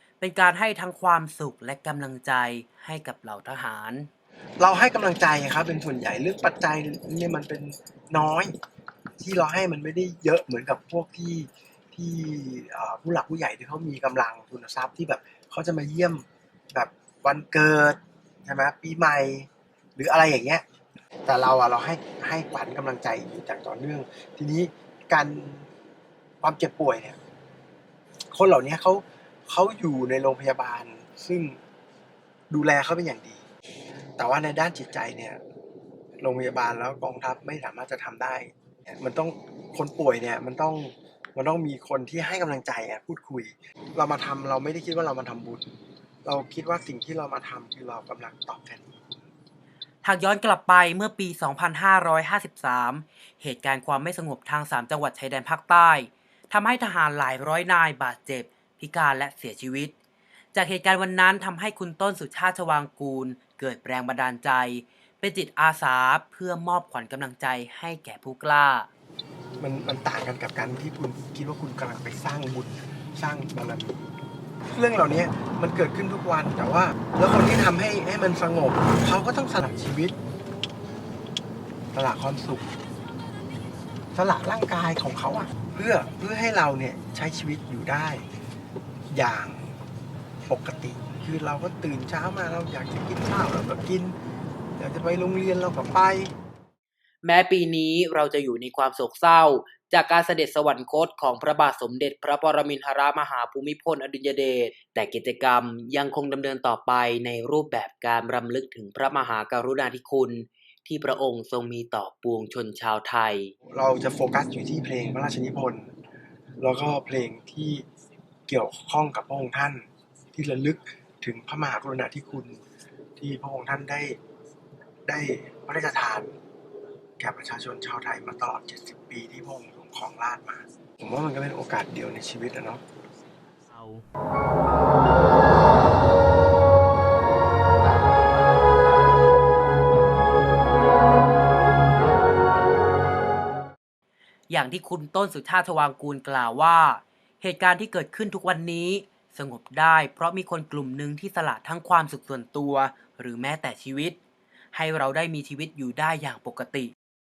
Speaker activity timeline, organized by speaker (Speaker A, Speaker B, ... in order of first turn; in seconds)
Speaker A: 0.2-4.1, 50.0-59.9, 60.5-68.9, 97.2-113.5, 144.5-154.2, 154.7-156.9
Speaker B: 4.6-8.5, 9.2-20.6, 21.2-25.7, 26.4-27.2, 28.3-31.6, 32.5-33.4, 34.2-35.4, 36.2-45.7, 46.2-49.0, 69.6-74.1, 74.7-80.2, 81.9-82.7, 84.1-88.2, 89.1-89.7, 90.5-94.2, 94.8-96.3, 113.7-115.9, 116.6-117.8, 118.5-122.6, 123.2-124.2, 125.0-126.3, 127.2-132.8